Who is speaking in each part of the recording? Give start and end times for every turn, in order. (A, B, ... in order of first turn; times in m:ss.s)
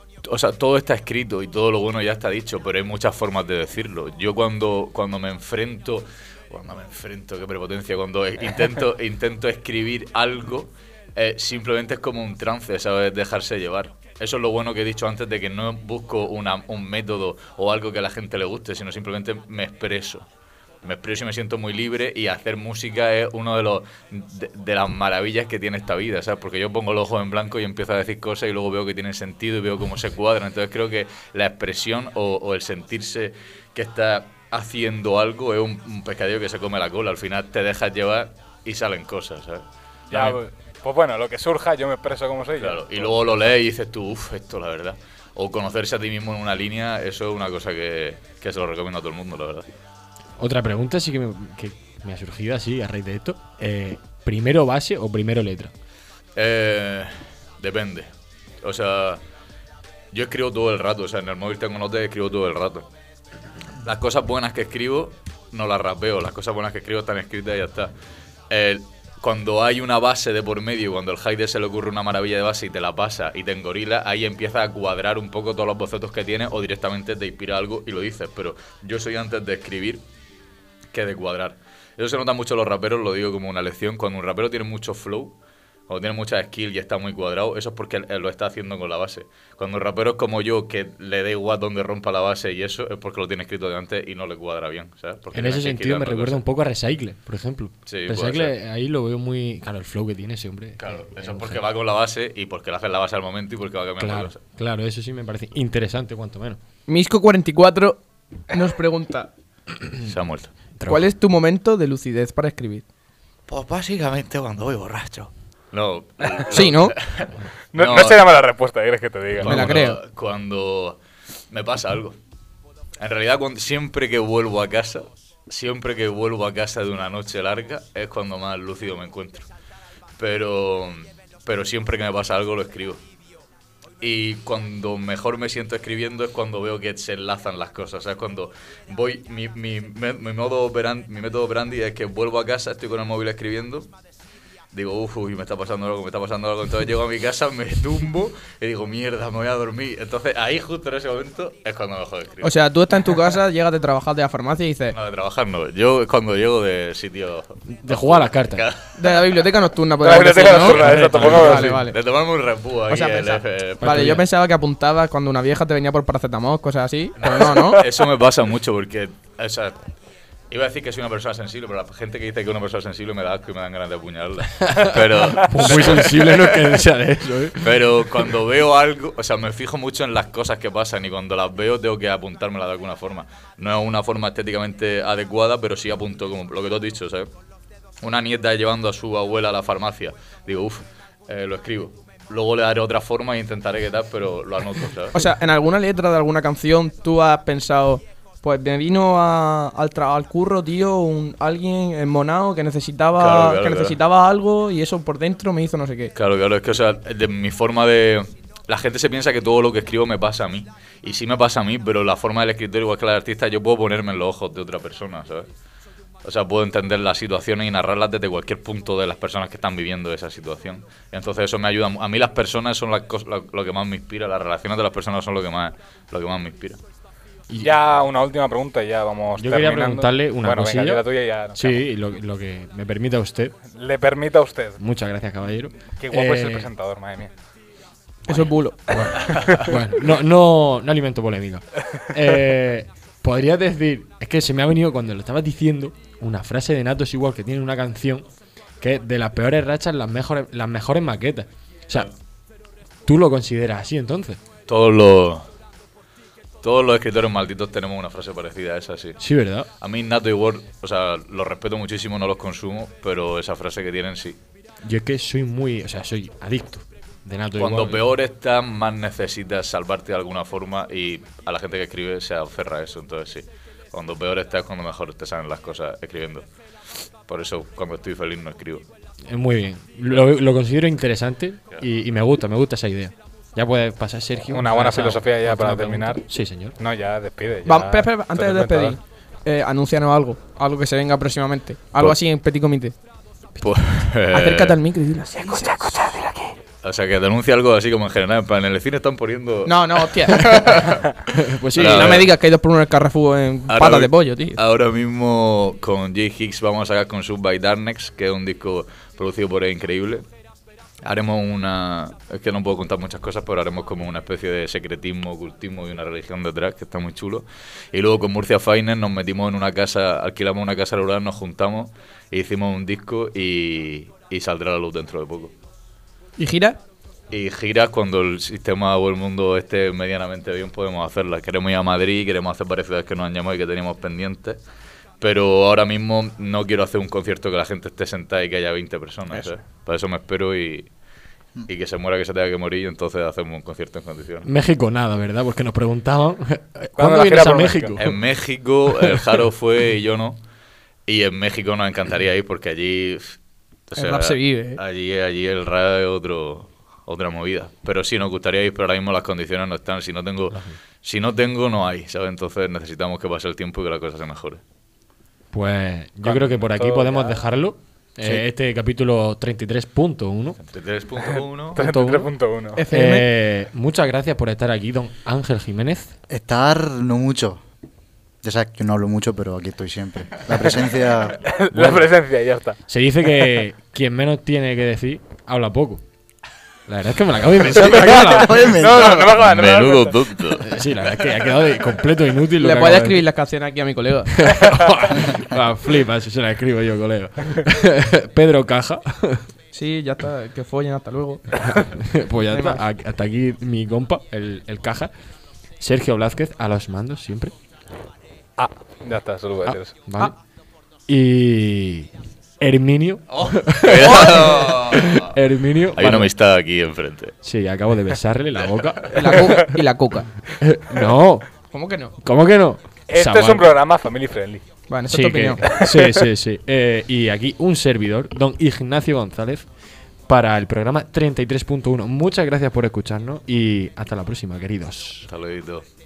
0:00.2-0:20.3 A
0:20.8-0:40.4 A
0:40.1-0:43.1 B
0:42.6-0:49.7 A
0:50.4-0:55.7 C
0:56.4-0:58.1 A
0:58.6-0:59.2 A
1:00.1-1:02.9 A
1:03.8-1:07.9 A
1:08.5-1:20.0 A
1:20.9-1:25.4 A
1:25.9-1:36.4 A
1:35.3-1:41.6 C
1:37.8-1:38.5 A
1:40.8-1:44.4 A
1:44.0-1:46.6 C
1:46.9-1:49.3 D
1:50.0-1:50.5 A
1:50.8-1:51.1 C
1:50.8-1:52.8 D
1:53.5-1:58.2 A
1:56.5-1:56.9 D
1:57.7-1:59.7 B
1:59.4-2:01.0 A
1:59.4-2:00.0 D
2:01.5-2:02.2 A
2:03.0-2:09.5 A
2:10.2-2:13.0 A
2:14.0-2:23.9 A
2:24.7-2:32.5 A
2:32.4-2:35.0 D
2:34.9-2:38.9 A
2:37.7-2:38.7 C
2:39.0-2:42.0 D
2:40.0-2:41.8 B
2:40.7-2:44.2 A
2:40.8-2:41.8 C
2:42.9-2:47.9 D
2:43.8-2:44.2 C
2:47.2-2:49.8 A
2:50.5-2:56.8 A
2:54.6-2:57.7 C
2:57.6-3:07.3 A
3:08.0-3:15.2 A
3:15.1-3:26.1 D
3:23.1-3:24.0 A
3:26.1-3:35.5 A
3:36.2-3:46.8 A
3:47.6-3:51.8 B
3:49.4-3:51.0 C
3:51.6-3:53.5 C
3:53.7-3:54.8 B
3:54.8-3:56.7 C
3:55.9-3:57.3 B
3:58.3-3:59.0 D
3:58.9-4:08.2 C
3:59.3-3:59.7 B
4:08.8-4:12.1 C
4:13.0-4:14.4 C
4:14.7-4:15.5 A
4:16.6-4:19.2 A
4:19.2-4:19.7 C
4:19.8-4:24.4 A
4:24.8-4:28.0 C
4:27.6-4:36.5 A
4:37.3-4:38.9 A
4:39.3-4:46.8 C
4:44.5-4:46.2 B
4:46.8-4:49.0 B
4:47.6-4:53.0 D
4:53.6-4:54.8 A
4:54.3-4:56.5 D
4:55.5-4:56.3 B
4:56.8-5:01.1 A
4:59.6-5:01.1 D
5:01.3-5:02.2 C
5:01.7-5:02.3 A
5:01.7-5:04.6 D
5:03.7-5:10.3 A
5:11.0-5:25.5 A
5:26.4-5:26.8 D
5:27.3-5:34.6 A
5:35.2-5:40.9 A
5:41.7-5:44.5 A
5:44.4-5:48.2 C
5:47.0-5:47.9 B
5:48.0-5:50.4 A
5:51.0-5:53.4 A
5:53.9-6:04.6 A
5:54.0-5:54.8 D
6:00.5-6:00.8 C
6:05.5-6:10.6 C
6:06.2-6:07.4 B
6:10.6-6:11.8 A
6:11.3-6:12.8 B
6:11.7-6:12.3 C
6:12.8-6:13.3 D
6:12.9-6:16.2 C
6:16.3-6:17.6 E
6:18.4-6:22.0 E
6:21.4-6:22.8 B
6:22.9-6:26.0 C
6:26.9-6:28.5 C
6:27.7-6:29.4 E
6:27.7-6:30.4 B
6:29.3-6:30.8 A
6:30.6-6:33.2 C
6:32.6-6:34.7 D
6:34.3-6:39.5 C
6:39.7-6:41.9 D
6:41.6-6:45.1 C
6:42.5-6:42.8 D
6:45.8-6:47.5 C
6:48.6-6:49.9 B
6:49.6-6:50.3 C
6:51.1-6:56.3 C
6:53.3-6:55.4 A
6:54.0-6:54.8 D
6:55.9-6:57.3 A
6:57.4-6:59.7 C
6:59.1-7:00.3 D
7:00.5-7:01.5 C
7:01.7-7:02.1 D
7:02.2-7:03.7 C
7:03.1-7:04.6 B
7:04.9-7:05.8 D
7:05.1-7:09.6 C
7:05.8-7:06.2 B
7:10.3-7:15.3 C
7:15.3-7:15.8 A